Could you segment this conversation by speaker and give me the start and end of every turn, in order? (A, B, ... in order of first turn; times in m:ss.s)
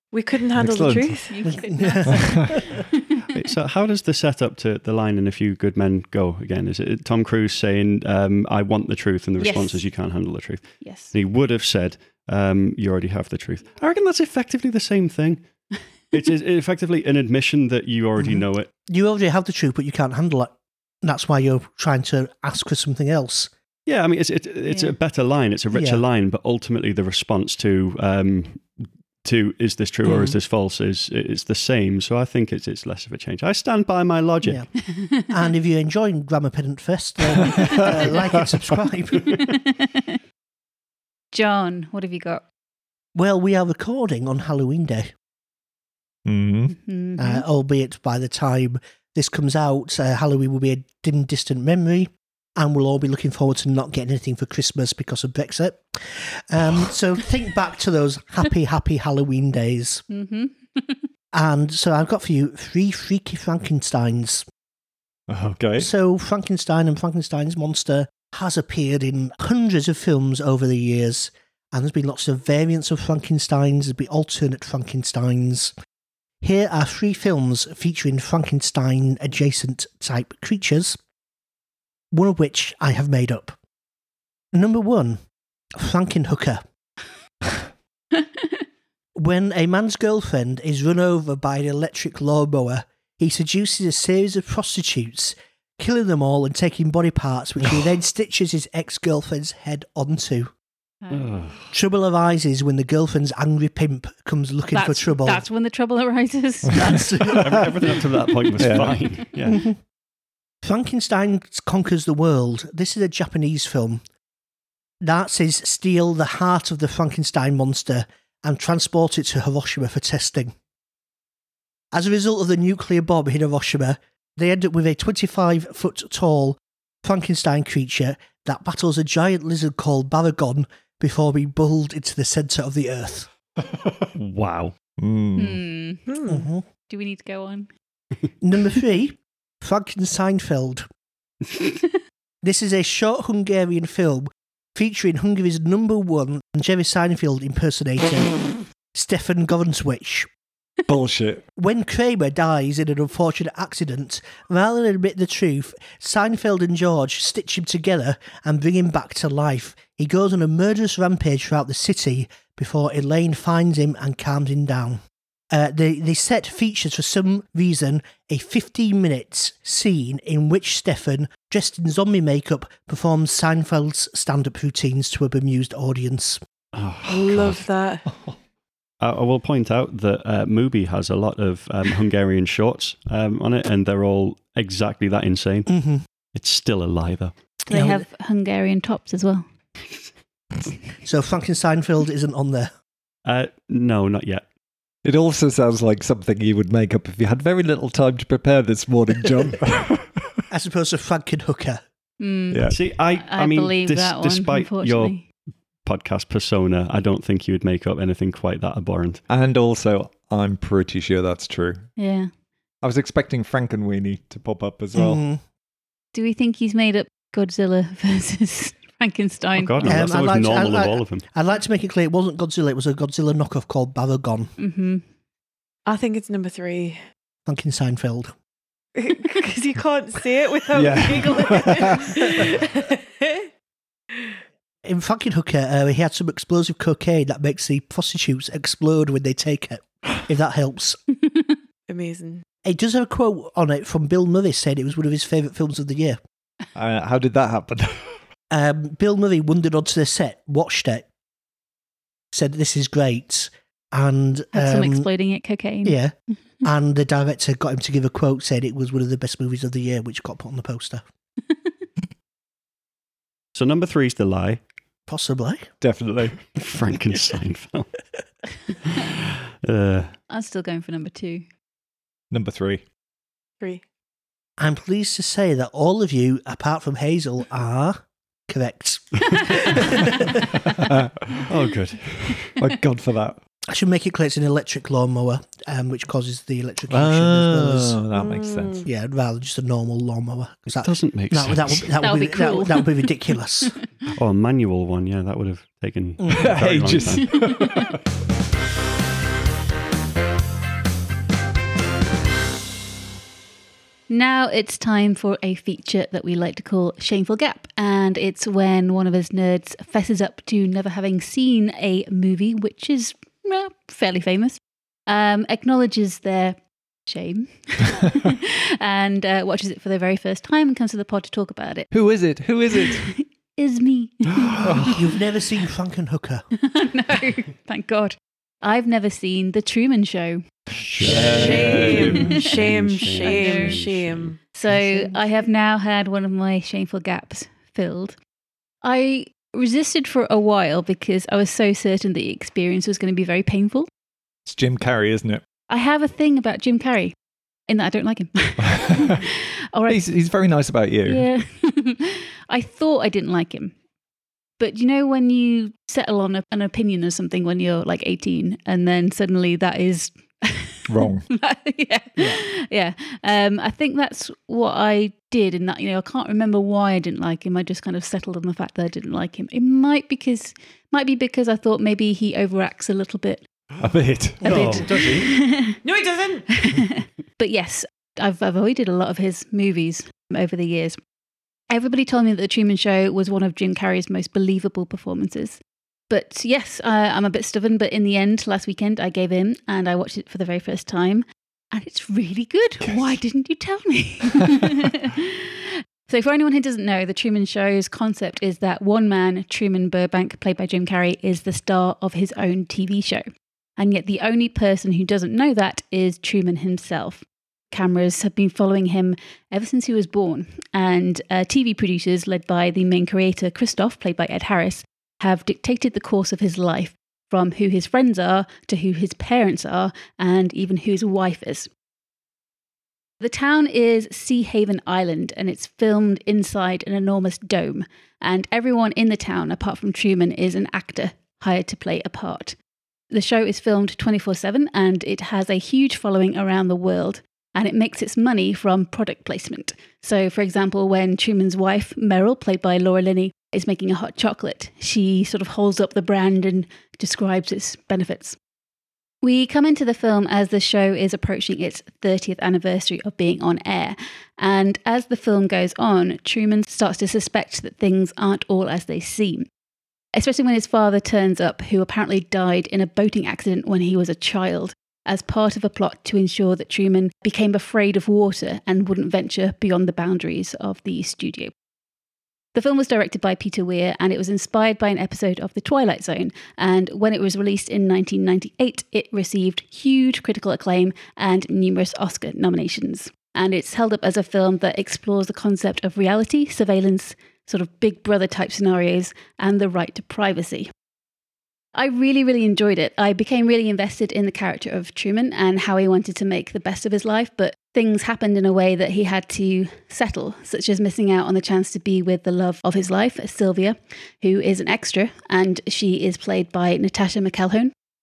0:00.1-0:01.4 A
0:00.6-0:01.2 B
0:01.3-0:03.2 C
0:01.4-0:02.8 D
0:03.3-0:15.4 E
0:09.4-0:09.8 C
0:10.8-0:11.1 C
0:16.1-0:18.7 E
0:18.2-0:20.5 D
0:21.0-0:23.5 D
0:23.9-0:34.6 E
0:24.7-0:24.9 C
0:25.7-0:26.0 D
0:34.4-0:34.7 D
0:34.9-0:35.3 C
0:35.3-0:39.4 D
0:37.6-0:37.9 B
0:39.3-0:40.2 C
0:41.3-0:42.5 C
0:43.2-0:45.1 D
0:46.2-0:46.8 B
0:46.7-0:47.4 C
0:47.2-1:00.0 D
1:00.1-1:01.0 C
1:01.3-1:04.4 D
1:05.3-1:05.9 B
1:05.8-1:15.7 D
1:16.4-1:21.0 D
1:22.1-1:23.6 D
1:24.5-1:25.2 D
1:25.7-1:26.6 D
1:29.2-1:40.5 D
1:41.0-1:41.5 C
1:41.1-1:41.7 E
1:41.7-1:45.4 D
1:44.7-1:47.1 C
1:46.8-1:47.5 D
1:47.3-1:49.6 E
1:48.6-1:49.0 B
1:49.5-1:49.8 D
1:50.6-1:54.0 D
1:55.0-2:00.5 D
2:01.9-2:13.3 D
2:13.7-2:14.1 B
2:14.2-2:14.8 E
2:15.0-2:15.6 B
2:15.4-2:16.0 C
2:16.1-2:16.5 A
2:16.3-2:16.6 D
2:16.9-2:17.7 C
2:18.4-2:20.9 D
2:22.4-2:30.3 D
2:30.9-2:31.4 B
2:31.6-2:56.4 D
2:56.7-2:57.6 E
2:57.0-2:58.1 A
2:59.0-3:05.7 E
3:05.7-3:06.0 D
3:06.3-3:07.3 E
3:07.7-3:08.1 D
3:07.7-3:09.4 C
3:11.0-3:12.7 D
3:13.2-3:14.4 E
3:15.0-3:20.4 B
3:20.5-3:21.8 D
3:22.2-3:25.2 C
3:22.5-3:22.8 B
3:22.7-3:25.2 E
3:25.8-3:29.2 E
3:29.3-3:31.9 B
3:32.0-3:32.3 C
3:32.8-3:35.2 B
3:34.9-3:35.4 D
3:36.1-3:40.0 C
3:39.6-3:41.2 E
3:39.8-3:44.5 D
3:44.6-3:45.0 C
3:45.9-3:47.0 A
3:47.5-3:48.3 D
3:49.0-3:53.5 A
3:50.7-3:52.3 B
3:54.8-4:01.0 D
4:01.2-4:01.5 C
4:01.9-4:02.4 A
4:02.6-4:06.2 D
4:06.8-4:08.2 B
4:08.5-4:11.1 D
4:12.3-4:15.1 D
4:14.5-4:16.0 C
4:15.8-4:21.0 D
4:23.6-4:24.6 E
4:25.1-4:25.7 D
4:25.8-4:26.5 B
4:26.5-4:27.9 E
4:28.9-4:30.1 E
4:30.3-4:31.4 C
4:32.3-4:32.8 B
4:34.6-4:40.6 D
4:40.8-4:41.5 B
4:41.5-4:42.5 E
4:42.6-4:43.4 B
4:43.7-4:48.0 D
4:46.9-4:48.9 B
4:48.2-4:48.8 A
4:48.8-4:53.8 D
4:50.7-4:51.9 E
4:52.0-4:53.8 C
4:54.1-4:57.4 E
4:56.2-4:56.5 D
4:56.3-4:58.0 B
4:57.2-4:57.9 C
5:04.1-5:21.9 C
5:21.9-5:23.1 B
5:22.7-5:25.0 C
5:24.5-5:25.0 B
5:24.9-5:26.5 D
5:26.6-5:30.4 C
5:30.8-5:32.4 B
5:30.8-5:34.4 E
5:31.1-5:34.4 A
5:32.1-5:32.4 C
5:33.0-5:33.8 C
5:34.5-5:38.2 C
5:34.7-5:35.2 D
5:38.8-5:43.9 C
5:44.5-5:45.4 B
5:45.7-5:47.2 C
5:47.7-5:50.0 C
5:48.8-5:49.2 B
5:49.9-5:51.3 B
5:51.1-5:53.7 C
5:54.6-6:13.4 C
6:00.9-6:01.3 B
6:13.8-6:14.7 B
6:14.4-6:14.8 D
6:14.4-6:15.3 E
6:14.5-6:15.8 C
6:15.8-6:16.5 A
6:16.5-6:21.0 C
6:21.7-6:25.6 C
6:26.1-6:43.3 C
6:32.8-6:33.1 B
6:43.8-7:01.7 C
7:03.2-7:12.6 C
7:13.1-7:28.4 C
7:29.2-7:39.5 C
7:40.1-7:51.5 C
7:52.5-8:10.7 C
8:11.7-8:27.7 C